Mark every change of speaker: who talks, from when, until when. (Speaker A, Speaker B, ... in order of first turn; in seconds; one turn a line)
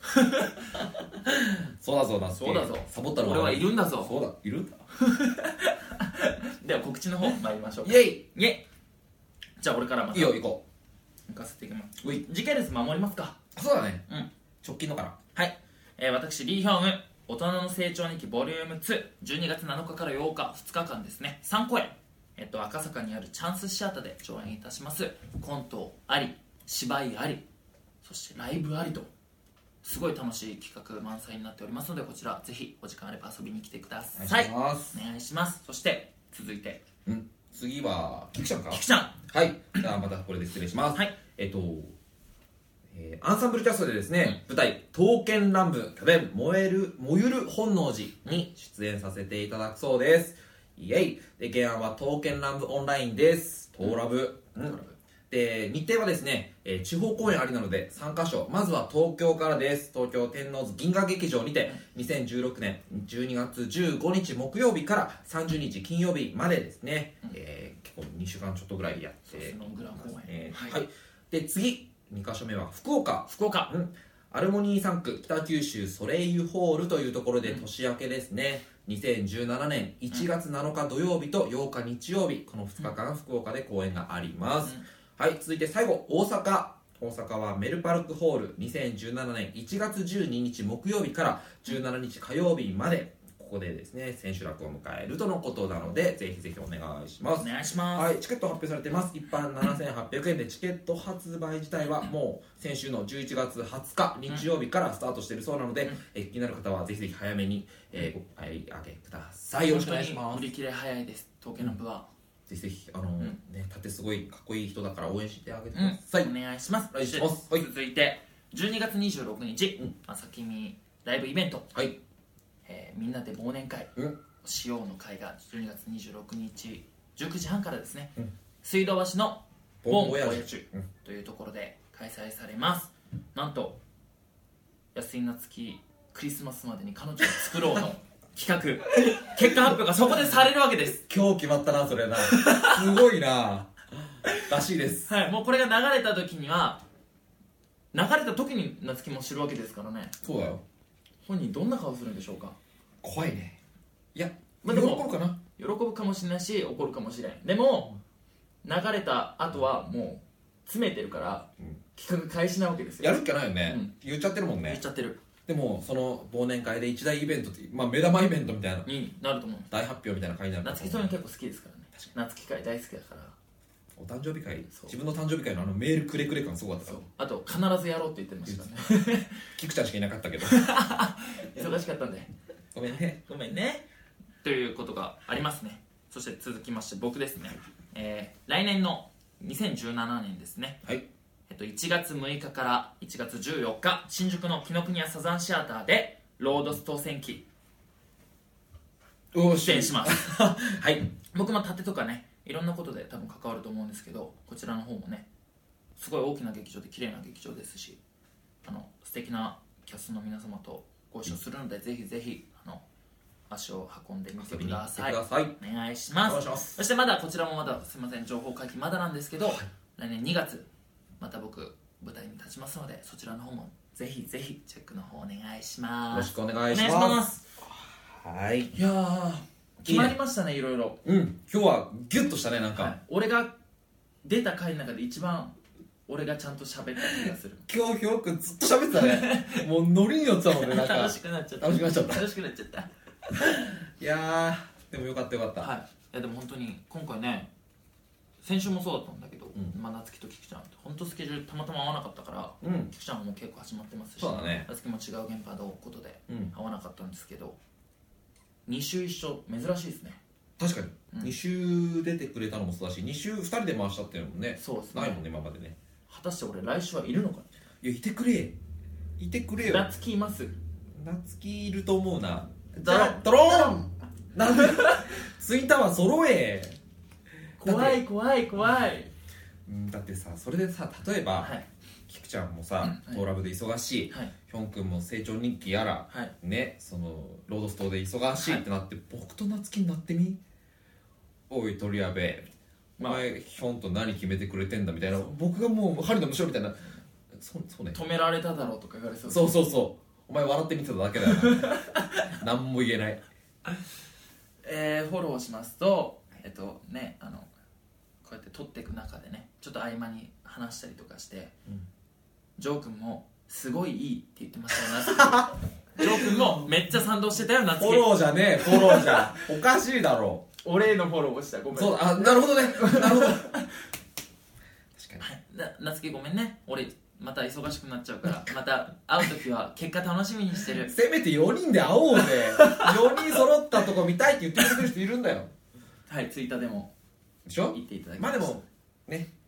Speaker A: 0.1-0.7
Speaker B: 0.8-4.8
Speaker A: 2.3-4.2
Speaker A: 5.0-8.6
Speaker B: 7.8-8.2
Speaker A: 9.6-10.4
Speaker B: 10.1-10.6
Speaker A: 11.3-13.4
Speaker B: 13.5-14.0
Speaker B: 14.6-15.2
Speaker A: 15.3-27.4
Speaker A: 28.0-29.1
Speaker A: 29.8-36.8
Speaker B: 34.1-35.0
Speaker B: 37.0-41.9
Speaker A: 38.7-39.2
Speaker B: 42.9-54.8
Speaker A: 54.7-54.9
Speaker B: 55.3-110.5
Speaker A: 69.3-70.8
Speaker A: 73.3-73.7
Speaker A: 97.4-98.1
Speaker A: 109.7-112.1
Speaker B: 112.5-116.3
Speaker A: 115.7-121.7
Speaker B: 116.9-117.7
Speaker A: 122.6-128.1
Speaker A: 128.6-133.8
Speaker B: 129.8-130.8
Speaker A: 134.9-141.0
Speaker B: 137.4-137.8
Speaker B: 141.1-143.7
Speaker A: 142.2-142.9
Speaker B: 144.3-145.1
Speaker A: 145.1-146.8
Speaker A: 147.9-150.1
Speaker B: 150.2-150.6
Speaker A: 151.2-152.6
Speaker B: 153.0-153.6
Speaker B: 154.1-155.4
Speaker A: 154.6-157.9
Speaker A: 158.6-163.9
Speaker B: 163.0-164.8
Speaker A: 164.7-165.2
Speaker B: 165.5-168.9
Speaker A: 168.8-169.7
Speaker B: 169.7-171.1
Speaker A: 170.6-173.3
Speaker B: 173.9-177.0
Speaker A: 174.7-174.9
Speaker A: 176.8-179.5
Speaker B: 179.5-180.7
Speaker A: 180.4-182.3
Speaker B: 182.7-183.2
Speaker A: 183.2-183.8
Speaker A: 184.4-190.8
Speaker A: 191.5-197.4
Speaker B: 199.3-201.1
Speaker A: 199.6-200.2
Speaker A: 201.3-205.2
Speaker A: 205.9-208.0
Speaker A: 208.6-212.8
Speaker A: 213.5-220.7
Speaker B: 214.4-215.6
Speaker B: 216.2-216.8
Speaker A: 221.2-227.4
Speaker B: 226.1-228.7
Speaker A: 228.7-231.0
Speaker B: 229.8-230.2
Speaker B: 231.0-232.9
Speaker A: 232.8-233.5
Speaker A: 234.2-235.6
Speaker A: 236.1-237.6
Speaker B: 237.1-242.2
Speaker A: 238.9-239.7
Speaker A: 240.5-242.9
Speaker B: 243.3-245.7
Speaker A: 245.6-247.5
Speaker A: 248.4-257.6
Speaker B: 252.6-252.9
Speaker B: 254.2-254.7
Speaker A: 258.6-260.2
Speaker B: 260.6-265.8
Speaker A: 264.6-265.2
Speaker A: 266.1-267.5
Speaker B: 267.8-268.5
Speaker B: 269.2-269.9
Speaker A: 269.6-270.5
Speaker B: 270.9-276.8
Speaker A: 272.8-273.8
Speaker A: 274.5-275.1
Speaker B: 277.6-278.0
Speaker A: 277.6-279.1
Speaker B: 279.6-281.5
Speaker A: 281.4-281.6
Speaker B: 282.1-290.4
Speaker A: 282.8-283.2
Speaker A: 286.1-286.3
Speaker A: 288.4-288.6
Speaker B: 291.5-298.0
Speaker A: 293.0-293.2
Speaker A: 297.9-299.5
Speaker B: 299.3-303.2
Speaker A: 301.3-302.3
Speaker A: 304.6-307.5
Speaker A: 308.2-311.5
Speaker A: 312.6-319.4
Speaker B: 314.8-316.6
Speaker B: 317.7-320.4
Speaker A: 320.6-323.7
Speaker B: 321.7-323.4
Speaker B: 324.9-325.2
Speaker A: 325.2-330.9
Speaker B: 330.8-335.5
Speaker A: 332.2-333.4
Speaker A: 336.1-336.9
Speaker B: 337.4-339.3
Speaker A: 337.7-338.6